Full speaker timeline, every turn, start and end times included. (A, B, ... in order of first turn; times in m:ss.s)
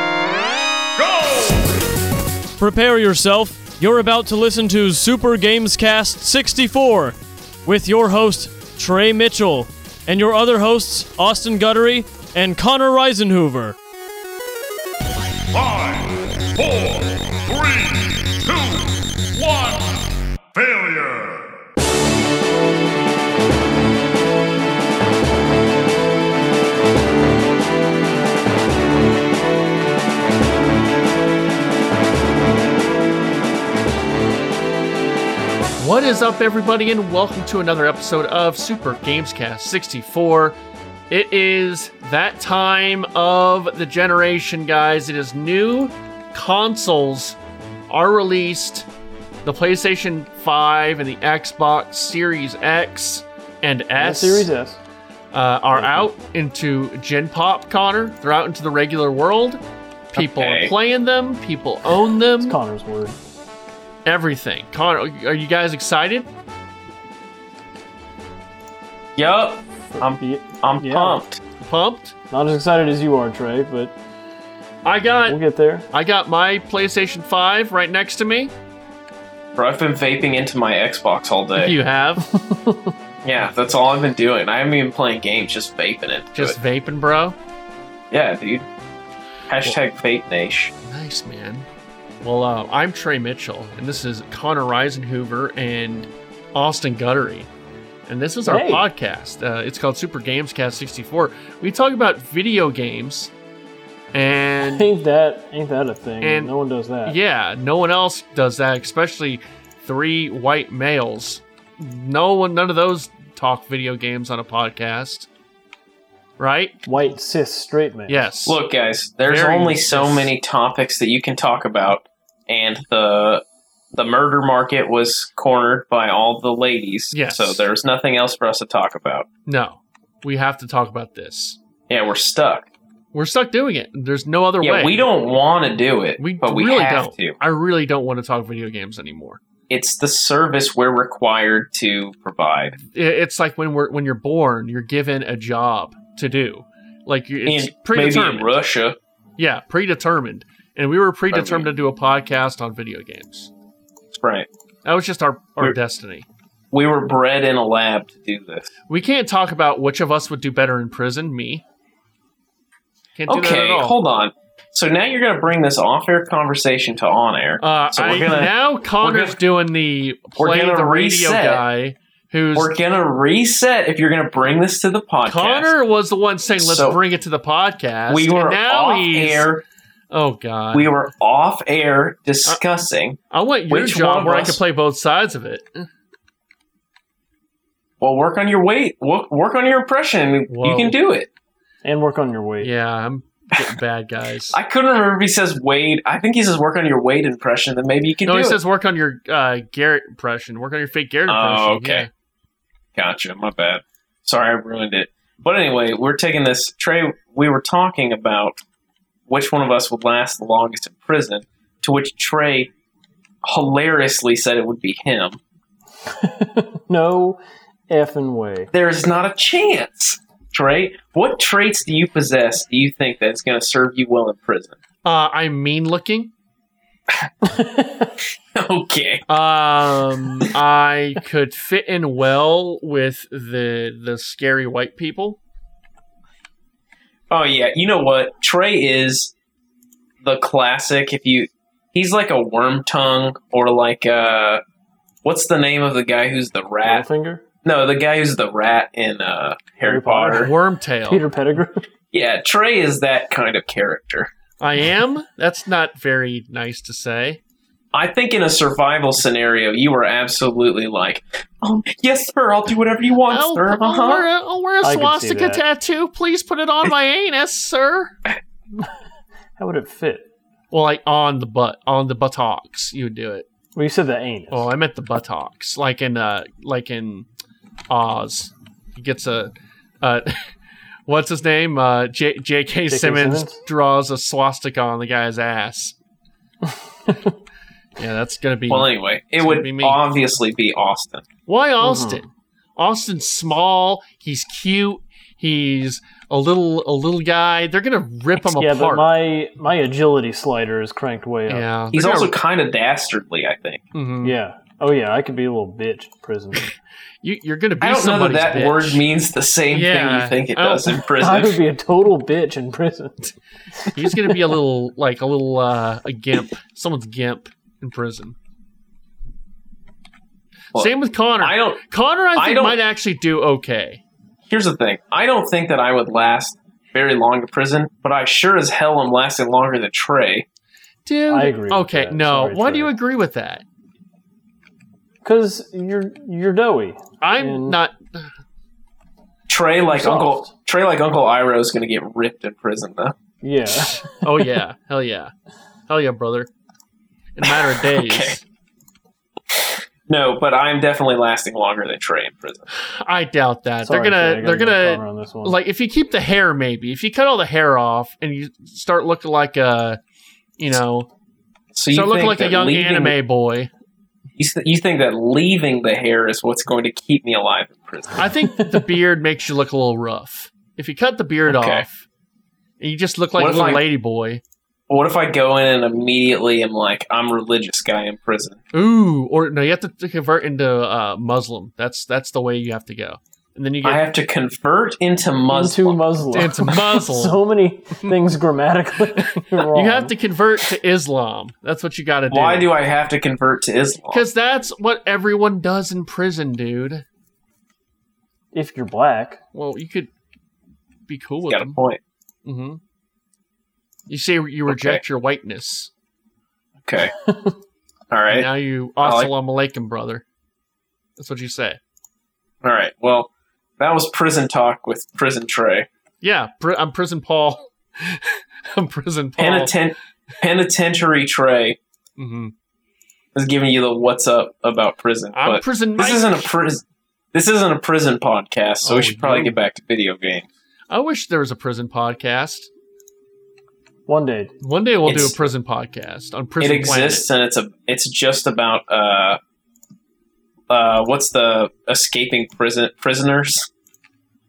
0:01.0-0:01.8 A
0:02.6-0:13.8 B
0:15.5-0:21.5 A
0:35.8-0:40.6 C
0:41.1-0:47.4 C
0:47.9-0:48.9 C
0:49.4-0:54.5 C
0:54.0-0:54.8 D
0:55.3-1:02.6 C
0:55.8-0:56.1 D
1:00.2-1:00.7 E
1:02.4-1:03.2 D
1:04.0-1:06.3 C
1:09.2-1:11.4 E
1:09.9-1:11.2 D
1:11.6-1:12.2 C
1:12.3-1:13.9 D
1:14.8-1:15.4 C
1:15.3-1:15.9 D
1:15.9-1:18.5 C
1:19.6-1:21.8 E
1:21.6-1:22.3 C
1:22.3-1:22.9 D
1:23.2-1:26.6 E
1:26.4-1:27.4 C
1:28.1-1:28.7 E
1:29.5-1:30.7 E
1:30.8-1:31.7 C
1:32.2-1:37.5 C
1:38.1-1:43.3 C
1:38.5-1:38.8 D
1:44.1-1:44.9 C
1:44.6-1:47.2 D
1:46.2-1:46.5 C
1:47.0-1:55.3 C
1:56.4-1:56.8 C
1:56.9-1:58.3 D
1:58.1-1:58.6 C
1:58.5-2:09.3 E
1:59.3-2:00.4 C
2:07.1-2:07.7 C
2:09.5-2:11.6 C
2:11.9-2:12.7 E
2:13.1-2:15.1 C
2:14.6-2:17.4 E
2:16.2-2:19.4 C
2:19.7-2:22.8 E
2:22.8-2:28.5 C
2:27.4-2:29.0 E
2:29.4-2:33.5 C
2:31.3-2:31.7 E
2:34.1-2:34.5 E
2:34.8-2:36.3 C
2:36.7-2:38.7 E
2:38.9-2:41.6 C
2:43.2-2:44.0 C
2:43.3-2:49.4 E
2:47.6-2:52.7 C
2:50.4-2:51.6 E
2:52.6-2:55.7 E
2:55.2-2:59.5 C
2:56.6-2:57.0 E
2:58.1-2:59.6 E
3:00.1-3:00.9 C
3:00.7-3:04.6 E
3:03.3-3:05.9 C
3:08.0-3:11.3 E
3:10.5-3:11.0 C
3:11.8-3:12.7 D
3:12.6-3:14.6 C
3:14.5-3:18.6 E
3:18.2-3:22.1 C
3:21.3-3:22.1 E
3:23.0-3:28.6 E
3:29.3-3:32.7 E
3:33.4-3:35.4 E
3:36.1-3:38.7 D
3:38.7-3:44.8 E
3:45.0-3:46.3 C
3:47.4-3:48.1 D
3:48.5-3:49.2 E
3:49.3-3:55.4 C
3:57.3-3:59.3 E
4:00.2-4:04.6 E
4:05.2-4:07.1 E
4:06.8-4:07.4 D
4:07.6-4:10.5 E
4:09.8-4:10.5 D
4:10.4-4:11.2 C
4:11.1-4:11.9 D
4:12.1-4:14.3 E
4:14.6-4:17.4 C
4:17.9-4:24.3 E
4:23.3-4:28.1 C
4:24.8-4:25.6 D
4:29.6-4:30.3 D
4:30.7-4:33.5 C
4:33.8-4:34.7 D
4:34.5-4:37.3 C
4:37.9-4:40.5 C
4:41.1-4:46.0 C
4:42.9-4:43.6 D
4:46.7-4:47.3 D
4:48.0-4:50.0 C
4:48.7-4:51.3 E
4:51.5-4:59.1 C
4:51.8-4:52.2 D
4:58.4-5:01.7 D
5:01.5-5:02.3 C
5:01.9-5:03.8 E
5:03.9-5:04.4 C
5:04.2-5:06.7 D
5:07.2-5:09.0 C
5:07.8-5:11.6 E
5:09.7-5:11.0 C
5:11.2-5:14.4 D
5:13.9-5:18.4 C
5:20.7-5:21.8 E
5:20.8-5:24.0 C
5:22.4-5:22.8 E
5:24.4-5:30.5 E
5:31.0-5:33.6 C
5:31.3-5:32.9 D
5:35.2-5:37.8 D
5:37.2-5:38.3 C
5:39.5-5:43.2 E
5:39.9-5:40.5 D
5:43.4-5:44.4 D
5:43.9-5:45.3 C
5:45.9-5:46.5 C
5:47.4-5:48.4 C
5:47.4-5:48.4 E
5:49.5-5:52.7 E
5:52.7-6:00.0 C
5:53.8-5:55.6 D
6:00.6-6:01.1 C
6:01.7-6:03.2 E
6:01.9-6:03.7 C
6:04.4-6:08.2 E
6:08.2-6:12.1 C
6:08.6-6:08.9 D
6:11.5-6:11.8 E
6:12.8-6:14.4 C
6:13.4-6:13.8 E
6:14.9-6:18.6 E
6:18.7-6:24.0 C
6:23.8-6:26.0 E
6:25.5-6:30.1 D
6:26.3-6:27.4 C
6:29.2-6:32.7 C
6:32.3-6:34.2 E
6:34.1-6:37.0 C
6:38.5-6:39.4 D
6:39.5-6:40.1 C
6:41.1-6:41.8 C
6:41.5-6:42.0 E
6:42.4-6:42.8 C
6:44.1-6:45.9 C
6:44.7-6:45.0 E
6:46.8-6:47.2 E
6:48.1-6:48.5 E
6:48.3-6:50.2 C
6:49.0-6:49.3 E
6:51.2-6:51.8 C
6:52.6-6:55.9 E
6:56.2-6:59.8 C
6:59.4-7:01.8 E
7:02.2-7:02.5 C
7:03.3-7:10.5 E
7:05.3-7:06.5 C
7:08.8-7:09.6 C
7:10.9-7:12.7 C
7:14.1-7:14.5 D
7:14.6-7:17.3 C
7:15.0-7:15.5 E
7:16.6-7:19.4 E
7:20.7-7:23.7 E